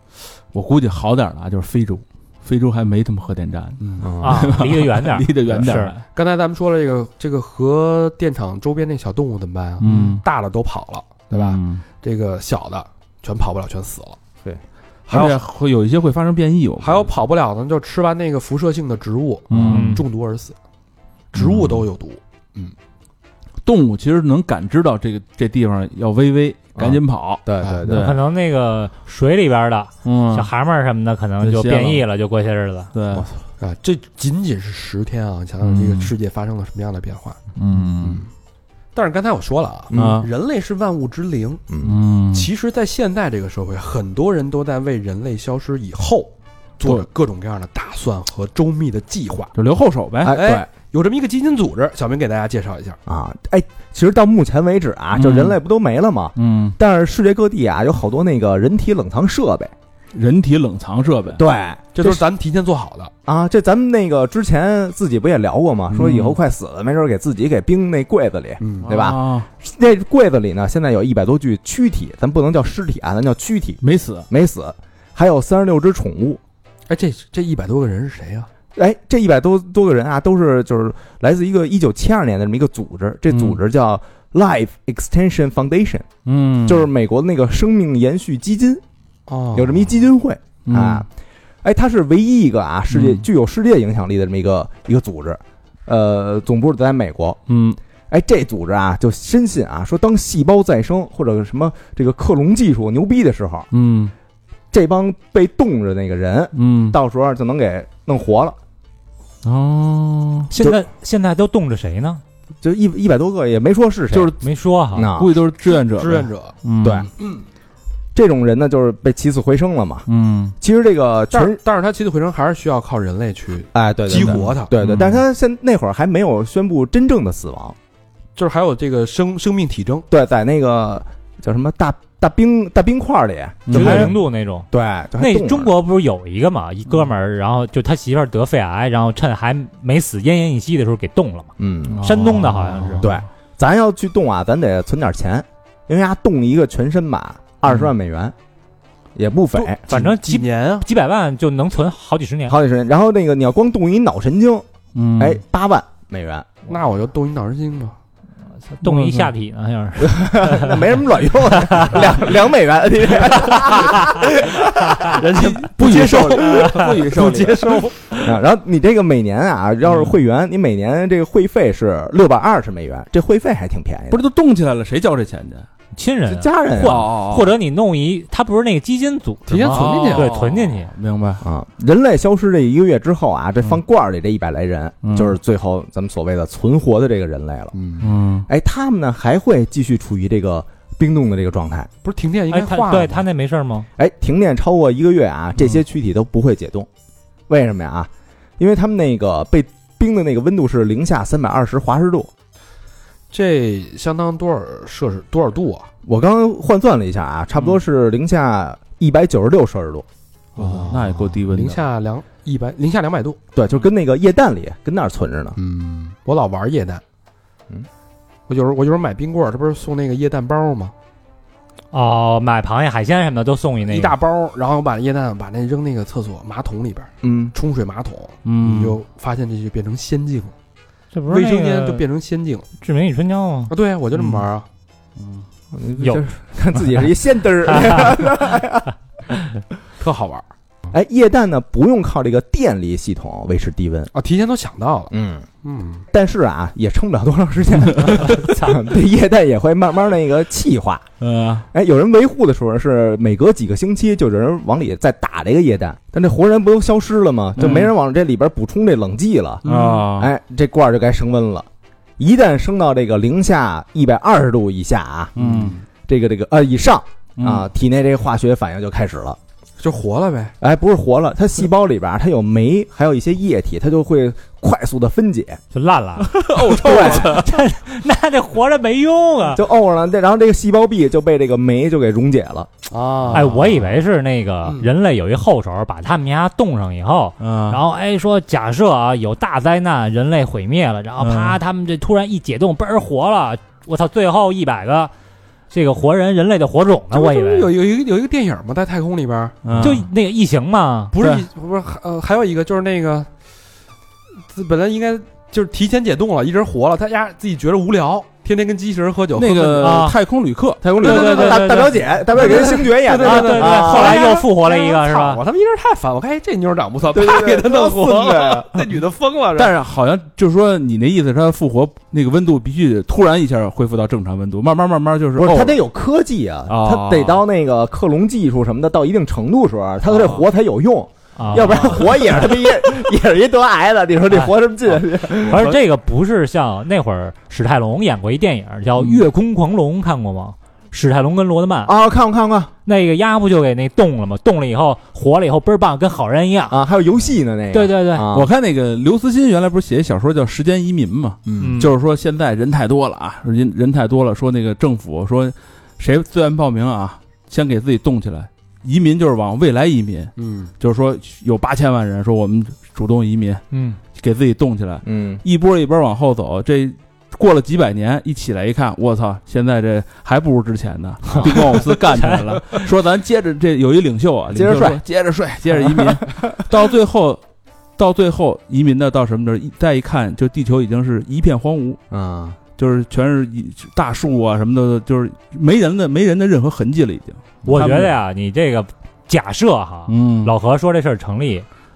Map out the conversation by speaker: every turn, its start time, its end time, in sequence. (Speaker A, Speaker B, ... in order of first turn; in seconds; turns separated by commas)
Speaker A: 0.5-6.0, Speaker B: 3.8-4.1, Speaker C: 4.0-4.5, Speaker D: 4.2-5.9, Speaker B: 6.1-14.2, Speaker A: 9.8-10.2, Speaker A: 11.3-11.8, Speaker B: 15.1-15.4, Speaker A: 15.1-17.1, Speaker B: 16.8-20.5, Speaker A: 19.5-20.0, Speaker D: 19.7-20.0, Speaker B: 21.3-22.7, Speaker A: 21.4-21.8, Speaker A: 23.6-28.2, Speaker C: 26.8-28.1, Speaker D: 27.9-32.9, Speaker A: 30.0-30.5, Speaker A: 31.4-32.0, Speaker A: 32.9-33.3, Speaker B: 33.6-37.4, Speaker A: 35.6-36.1, Speaker A: 37.5-38.2, Speaker B: 38.0-38.3, Speaker B: 38.9-41.6, Speaker C: 39.9-40.2, Speaker A: 39.9-40.3, Speaker C: 41.7-42.0, Speaker A: 41.8-42.5, Speaker B: 42.3-49.5, Speaker A: 49.5-50.4, Speaker C: 50.2-50.7, Speaker B: 50.3-53.0, Speaker C: 53.0-59.7, Speaker A: 55.1-55.6, Speaker A: 56.4-56.8, Speaker A: 60.1-61.4, Speaker C: 61.3-62.2, Speaker B: 61.9-63.1, Speaker C: 63.2-76.4, Speaker A: 65.9-66.4, Speaker B: 68.6-68.9, Speaker A: 68.8-69.5, Speaker A: 73.8-74.3, Speaker B: 76.9-78.5, Speaker C: 78.7-86.1, Speaker A: 83.3-83.6, Speaker A: 86.2-86.9, Speaker C: 86.6-88.8, Speaker B: 89.3-89.9, Speaker C: 89.5-91.1, Speaker A: 90.6-91.0, Speaker C: 91.6-97.4, Speaker A: 92.9-93.2, Speaker A: 97.5-97.8, Speaker C: 98.1-103.7, Speaker A: 103.7-104.1, Speaker C: 104.7-108.5, Speaker A: 106.5-107.0, Speaker A: 109.4-110.5, Speaker D: 110.5-112.2, Speaker C: 112.6-114.3, Speaker A: 114.1-114.4, Speaker D: 114.4-115.1, Speaker C: 114.9-115.3, Speaker A: 115.0-117.1, Speaker B: 115.7-116.5, Speaker C: 116.8-117.1, Speaker C: 118.1-120.0, Speaker A: 120.1-120.5, Speaker C: 120.6-121.6, Speaker B: 121.3-124.7, Speaker C: 123.7-127.8, Speaker A: 124.1-125.2, Speaker B: 128.3-130.1, Speaker C: 130.1-134.2, Speaker A: 133.7-134.1, Speaker D: 133.7-143.1, Speaker C: 134.7-135.7, Speaker C: 141.6-142.0, Speaker A: 141.9-143.2, Speaker C: 143.0-148.3, Speaker C: 149.2-149.8, Speaker B: 149.6-150.9, Speaker D: 149.9-152.6, Speaker C: 152.5-154.7, Speaker A: 154.9-155.4, Speaker C: 155.2-156.5, Speaker B: 156.7-157.9, Speaker D: 158.7-162.0, Speaker A: 158.8-159.3, Speaker C: 160.0-164.4, Speaker B: 164.4-168.2, Speaker A: 165.3-167.9, Speaker D: 166.4-166.9, Speaker C: 168.2-174.2, Speaker A: 169.8-170.1, Speaker A: 174.1-175.7, Speaker D: 175.9-180.9, Speaker C: 176.3-177.1, Speaker A: 176.8-177.5, Speaker B: 179.5-180.5, Speaker A: 179.7-181.4, Speaker C: 181.4-187.8, Speaker A: 185.0-185.3, Speaker B: 187.7-188.1, Speaker A: 188.0-188.5, Speaker C: 188.5-191.9, Speaker B: 192.0-193.2, Speaker D: 192.5-193.9, Speaker C: 194.0-196.9, Speaker C: 197.5-202.3, Speaker B: 203.3-205.9, Speaker C: 206.0-210.1, Speaker B: 210.6-213.4, Speaker A: 210.6-211.9, Speaker C: 213.5-215.6, Speaker B: 215.6-217.0, Speaker B: 218.5-220.9, Speaker D: 221.9-224.1, Speaker B: 223.8-230.5, Speaker C: 227.2-227.5, Speaker A: 228.4-228.9, Speaker D: 231.1-232.0, Speaker B: 231.3-232.7, Speaker D: 232.8-233.7, Speaker B: 233.7-234.7, Speaker A: 235.2-235.4, Speaker C: 235.7-238.9, Speaker D: 236.8-237.0, Speaker D: 237.7-238.1, Speaker B: 240.0-240.4, Speaker C: 240.9-244.1, Speaker B: 244.1-246.0, Speaker C: 245.1-245.5, Speaker C: 246.1-251.0, Speaker A: 247.9-248.3, Speaker A: 251.2-251.7, Speaker C: 251.7-259.6, Speaker A: 257.6-257.9, Speaker B: 259.6-260.1, Speaker A: 259.6-260.3, Speaker C: 260.2-261.7, Speaker C: 262.2-265.3, Speaker A: 265.4-265.8, Speaker B: 265.4-265.8, Speaker C: 266.1-269.4, Speaker A: 267.4-267.6, Speaker B: 269.8-270.5, Speaker C: 270.6-275.6, Speaker D: 275.7-279.6, Speaker A: 276.3-277.6, Speaker C: 276.8-277.3, Speaker B: 276.9-277.1, Speaker C: 279.5-282.7, Speaker B: 282.9-283.8, Speaker A: 283.3-283.6, Speaker D: 283.3-295.1, Speaker A: 287.4-287.8, Speaker A: 291.2-291.6, Speaker D: 295.7-297.7, Speaker B: 297.1-300.0, Speaker A: 299.6-300.1, Speaker D: 299.8-301.1, Speaker B: 301.1-303.3, Speaker A: 301.2-301.4, Speaker B: 304.5-310.0, Speaker A: 309.4-310.8, Speaker D: 309.8-310.2, Speaker C: 310.8-314.2, Speaker D: 310.9-312.4, Speaker B: 311.0-319.7, Speaker D: 313.2-315.4, Speaker C: 317.1-318.8, Speaker A: 319.5-325.8, Speaker C: 325.4-335.7, Speaker A: 326.7-327.4, Speaker A: 330.1-330.4, Speaker D: 331.4-332.5, Speaker D: 335.4-341.9, Speaker A: 335.5-335.7, Speaker C: 341.8-342.7, Speaker D: 342.8-346.8, Speaker C: 346.7-348.5, Speaker D: 347.7-348.2, Speaker A: 348.3-363.6, Speaker C: 351.5-351.8, Speaker D: 351.6-351.9, Speaker B: 360.4-360.7, Speaker D: 363.7-364.0, Speaker A: 364.1-377.4, Speaker C: 365.0-365.4, Speaker D: 371.4-372.8, Speaker C: 374.5-375.0, Speaker C: 375.7-376.6, Speaker A: 378.0-382.0, Speaker C: 382.1-382.6, Speaker A: 382.8-388.1, Speaker D: 387.6-391.6, Speaker A: 390.1-390.5